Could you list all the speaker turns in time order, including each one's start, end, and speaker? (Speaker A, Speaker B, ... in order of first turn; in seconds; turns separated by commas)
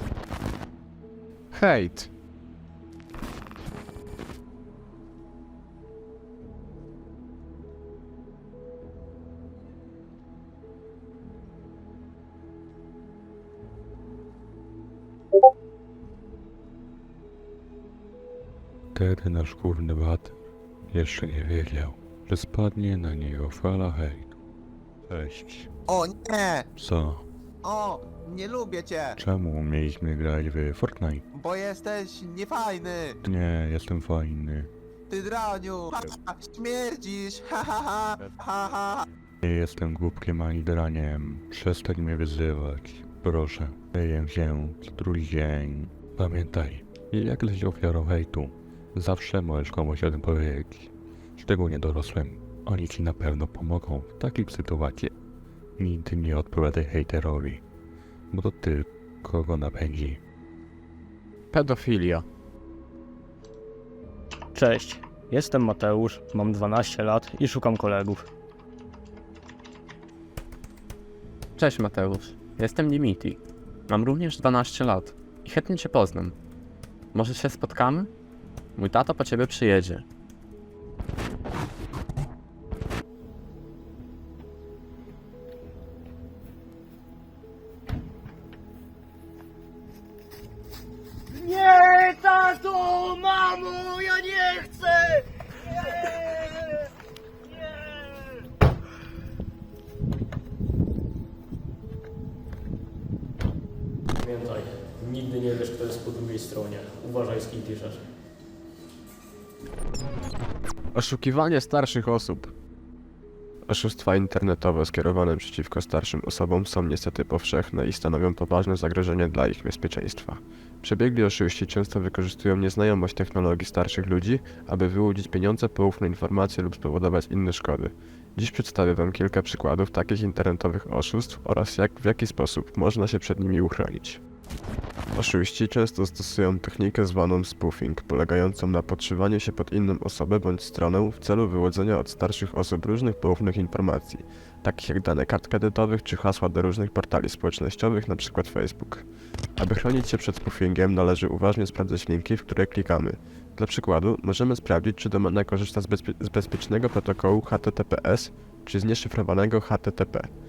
Speaker A: 1.5-2.1, Speaker B: 18.9-20.3, Speaker B: 20.9-24.3, Speaker B: 25.1-25.7, Speaker B: 26.8-27.2, Speaker C: 28.1-28.9, Speaker B: 29.2-31.2, Speaker C: 31.6-33.0, Speaker B: 33.2-34.7, Speaker C: 35.2-35.8, Speaker C: 36.7-37.6, Speaker B: 39.4-55.1, Speaker B: 55.8-57.6, Speaker B: 58.3-60.2, Speaker A: 61.5-62.2, Speaker D: 64.5-68.3, Speaker E: 71.6-73.4, Speaker E: 73.9-76.3, Speaker E: 77.1-78.1, Speaker E: 78.8-80.0, Speaker D: 91.3-96.8, Speaker D: 97.6-98.1, Speaker D: 104.2-108.0, Speaker A: 110.9-112.5, Speaker A: 113.7-134.2, Speaker A: 135.1-149.1, Speaker A: 149.6-160.3